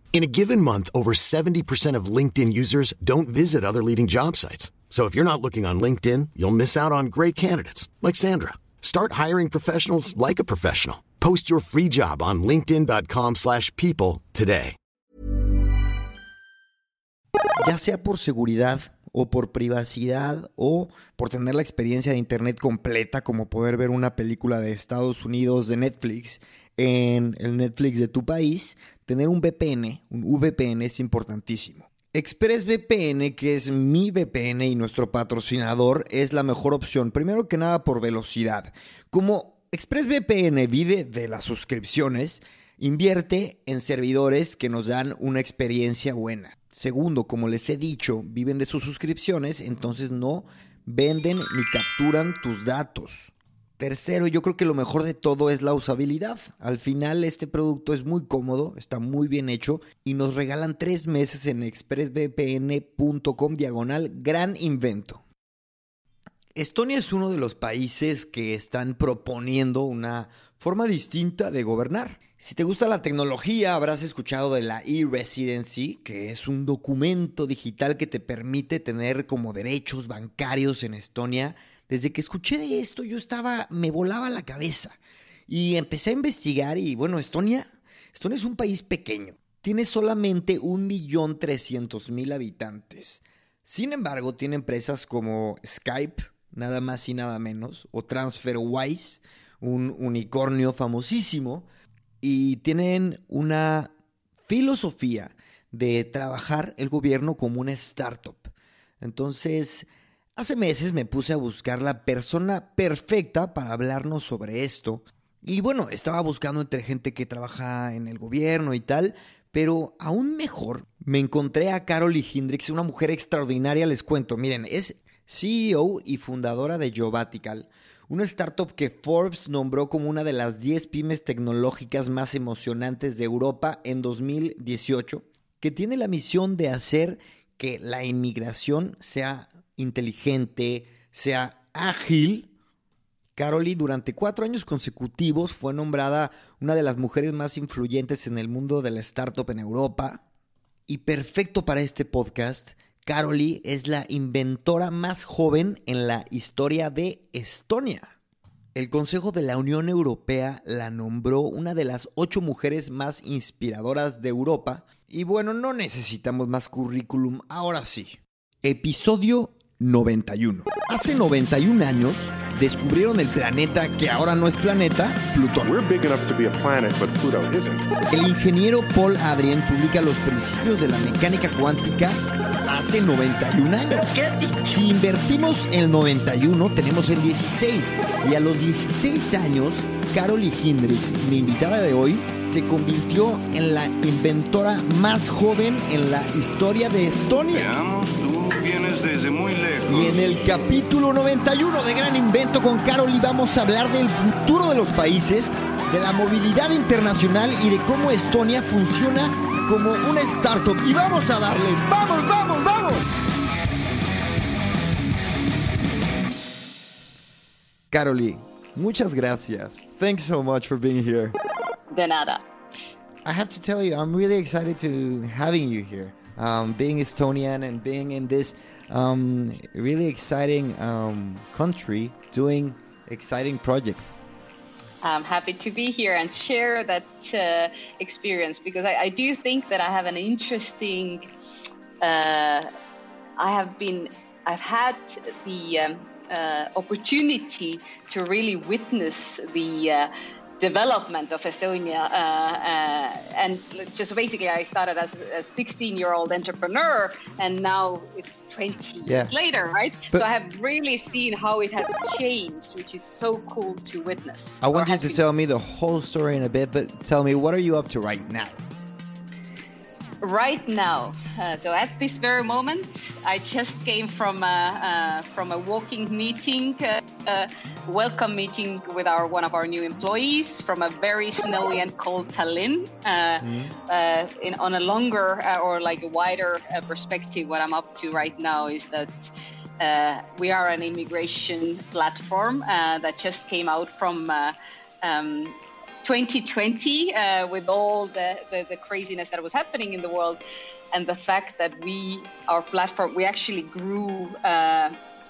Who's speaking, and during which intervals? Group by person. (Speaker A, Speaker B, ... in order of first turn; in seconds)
Speaker A: 0.1-14.8
Speaker B: 17.6-65.2, 66.5-85.0, 85.5-101.7, 102.2-103.9, 104.5-142.5, 143.3-150.2, 150.9-158.1, 158.7-175.8, 178.1-197.7, 199.9-213.1, 217.9-221.3, 223.2-234.2, 259.1-259.3, 264.6-268.6, 283.4-283.7
Speaker C: 175.6-177.9
Speaker D: 197.5-200.6
Speaker E: 221.9-222.4, 235.0-241.3, 242.0-242.7, 243.4-265.2, 270.2-300.4, 300.9-304.9